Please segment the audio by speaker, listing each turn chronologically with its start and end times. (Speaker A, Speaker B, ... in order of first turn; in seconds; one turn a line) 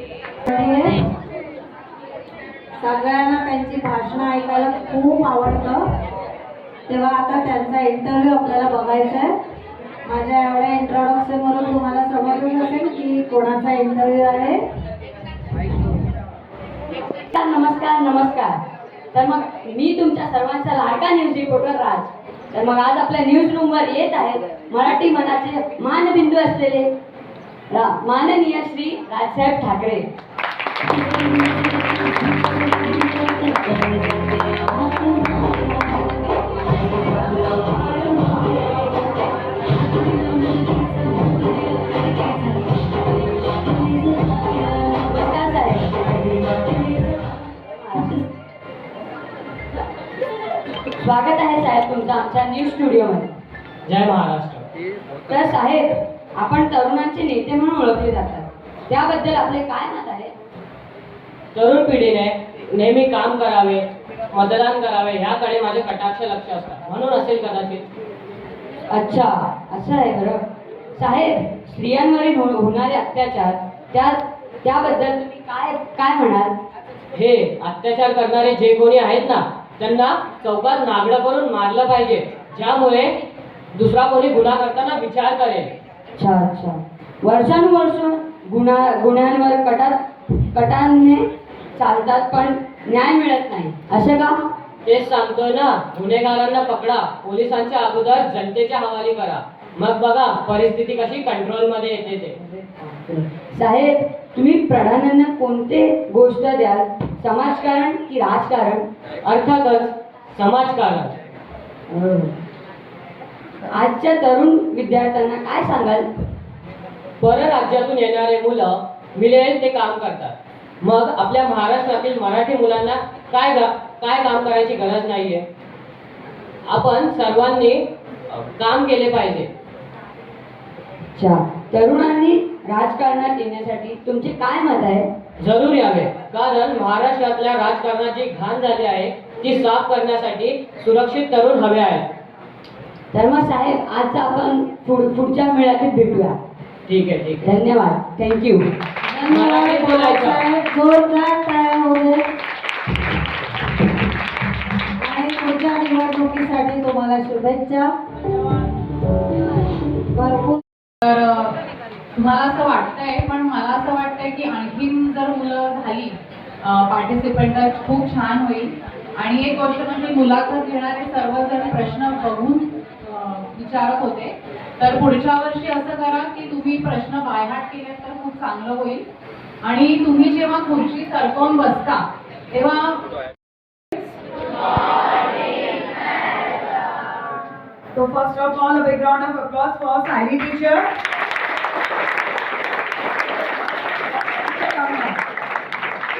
Speaker A: 0.5-0.9
Speaker A: 2.8-5.8
Speaker A: 6.9-9.3
Speaker A: 10.1-14.6
Speaker B: 17.3-18.6
Speaker B: 19.1-26.9
Speaker B: 27.7-30.1
Speaker B: 45.1-46.5
Speaker B: 51.0-53.3
Speaker C: 53.9-54.6
Speaker B: 55.3-60.3
Speaker C: 61.5-67.8
Speaker B: 68.9-70.4
Speaker B: 71.0-76.5
Speaker C: 77.1-83.1
Speaker C: 83.7-85.7
Speaker B: 86.2-94.3
Speaker C: 94.8-102.3
Speaker B: 102.4-108.8
Speaker C: 109.2-111.1
Speaker B: 113.7-116.0
Speaker C: 117.2-125.4
Speaker C: 126.7-127.8
Speaker C: 128.3-129.5
Speaker B: 131.1-135.1
Speaker C: 135.4-142.0
Speaker B: 143.1-146.3
Speaker C: 146.9-147.4
Speaker B: 147.4-148.7
Speaker A: 149.1-152.2
Speaker C: 149.3-150.4
Speaker A: 155.0-157.9
Speaker A: 160.1-160.6
Speaker D: 161.0-161.5
Speaker D: 162.2-179.0
Speaker D: 179.6-183.0
Speaker E: 187.9-190.9
Speaker E: 194.3-195.2